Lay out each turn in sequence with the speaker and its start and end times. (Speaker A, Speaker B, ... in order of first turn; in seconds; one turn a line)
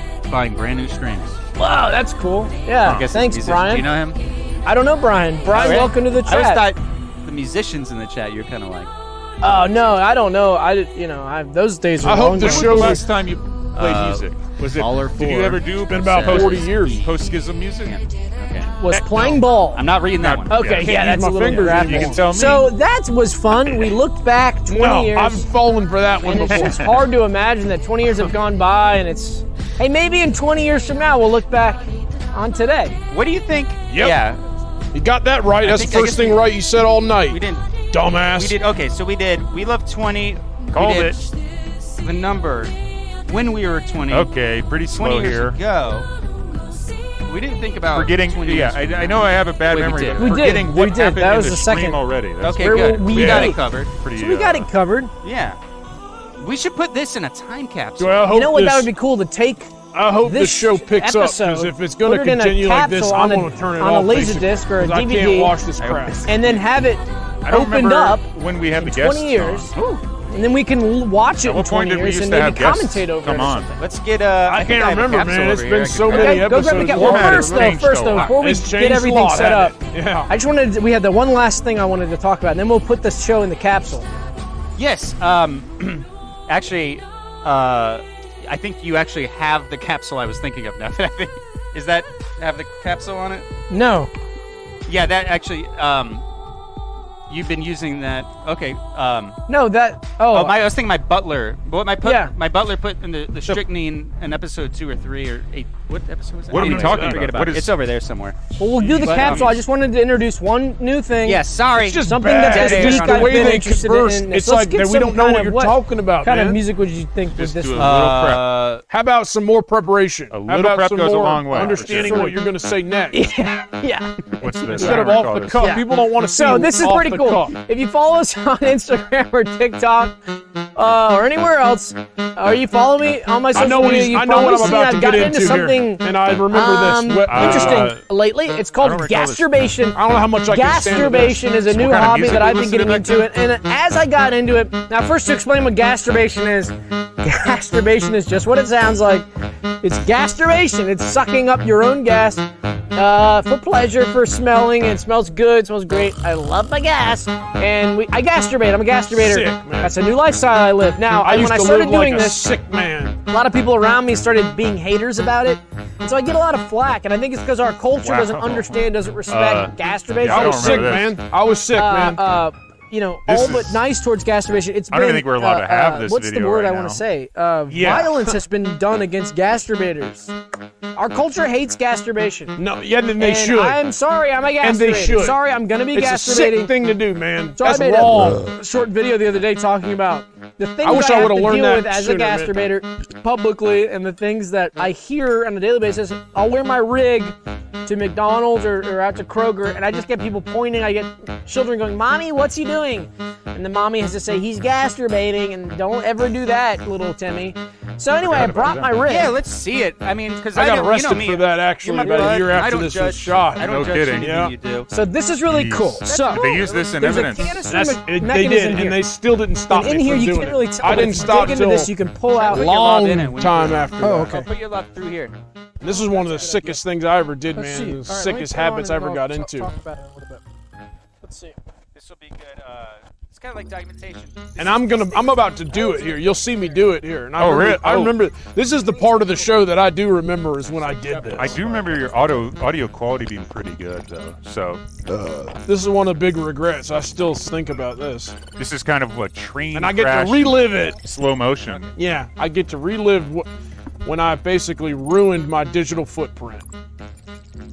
Speaker A: 0.2-1.4
Speaker B: 1.6-3.9
Speaker A: 2.8-4.2
Speaker B: 4.7-6.7
Speaker A: 5.5-8.9
Speaker B: 9.4-13.0
Speaker C: 12.0-13.1
Speaker D: 12.4-18.0
Speaker A: 13.7-17.1
Speaker C: 15.9-17.0
Speaker A: 17.9-20.6
Speaker B: 18.8-19.9
Speaker D: 20.2-22.7
Speaker B: 20.5-25.5
Speaker C: 20.8-22.2
Speaker C: 24.7-26.9
Speaker B: 26.2-33.0
Speaker D: 26.5-27.0
Speaker A: 33.1-34.4
Speaker C: 33.9-34.2
Speaker C: 34.9-37.4
Speaker A: 35.6-36.5
Speaker A: 37.3-37.6
Speaker C: 37.9-38.6
Speaker A: 38.3-41.3
Speaker D: 40.7-41.3
Speaker A: 42.0-42.7
Speaker A: 43.3-44.3
Speaker D: 44.1-45.6
Speaker A: 44.9-46.1
Speaker A: 47.2-49.1
Speaker D: 47.9-54.7
Speaker A: 49.7-50.5
Speaker B: 50.2-52.0
Speaker A: 52.4-53.9
Speaker B: 52.6-53.6
Speaker C: 53.1-53.5
Speaker B: 54.1-55.1
Speaker A: 55.2-55.6
Speaker A: 56.4-58.2
Speaker C: 58.0-58.9
Speaker B: 58.3-65.5
Speaker C: 59.9-66.3
Speaker A: 65.8-66.6
Speaker B: 66.3-69.7
Speaker D: 67.4-69.7
Speaker A: 69.8-70.0
Speaker B: 70.3-73.8
Speaker D: 71.4-73.8
Speaker A: 73.8-76.7
Speaker C: 74.5-80.3
Speaker B: 76.1-79.8
Speaker D: 76.8-78.3
Speaker B: 80.3-84.1
Speaker A: 84.8-93.5
Speaker B: 93.7-94.1
Speaker A: 94.9-96.2
Speaker A: 97.3-99.4
Speaker B: 99.5-100.6
Speaker A: 100.3-109.6
Speaker B: 102.0-102.3
Speaker D: 106.5-107.7
Speaker C: 106.5-107.3
Speaker B: 108.6-111.4
Speaker C: 108.9-109.3
Speaker A: 111.2-113.6
Speaker C: 111.8-116.6
Speaker B: 112.0-117.9
Speaker D: 117.3-118.5
Speaker A: 117.8-118.8
Speaker C: 118.9-123.3
Speaker D: 120.3-122.2
Speaker B: 121.5-122.4
Speaker B: 123.1-130.2
Speaker D: 124.4-125.7
Speaker C: 124.7-127.5
Speaker B: 130.8-149.3
Speaker C: 133.5-137.9
Speaker D: 137.3-138.1
Speaker D: 138.8-139.5
Speaker C: 139.9-141.4
Speaker D: 141.7-143.3
Speaker B: 149.8-162.5
Speaker C: 159.1-160.0
Speaker C: 161.2-163.2
Speaker B: 163.3-171.0
Speaker D: 168.0-171.2
Speaker C: 170.2-172.2
Speaker B: 171.8-180.3
Speaker D: 173.3-173.8
Speaker D: 174.9-177.0
Speaker C: 177.7-178.4
Speaker B: 180.9-182.6
Speaker C: 182.6-183.8
Speaker B: 183.2-186.7
Speaker C: 184.6-185.4
Speaker C: 185.9-188.4
Speaker B: 187.6-209.3
Speaker C: 190.8-192.6
Speaker D: 208.2-209.0
Speaker A: 209.1-214.9
Speaker C: 210.5-213.7
Speaker B: 212.0-212.3
Speaker D: 213.6-214.4
Speaker C: 214.2-214.5
Speaker B: 214.9-219.0
Speaker D: 215.5-217.7
Speaker C: 217.7-221.9
Speaker B: 219.7-222.7
Speaker A: 222.3-225.3
Speaker C: 222.4-224.4
Speaker B: 224.0-224.5
Speaker C: 225.8-229.7
Speaker B: 225.9-226.8
Speaker B: 227.6-230.4
Speaker B: 231.2-231.6
Speaker A: 231.9-235.2
Speaker C: 234.6-241.6
Speaker B: 235.8-236.1
Speaker D: 237.4-238.2
Speaker A: 240.8-242.3
Speaker D: 241.3-244.8
Speaker C: 245.3-248.4
Speaker D: 248.6-251.9
Speaker C: 249.7-251.0
Speaker C: 252.0-253.5
Speaker C: 254.0-256.6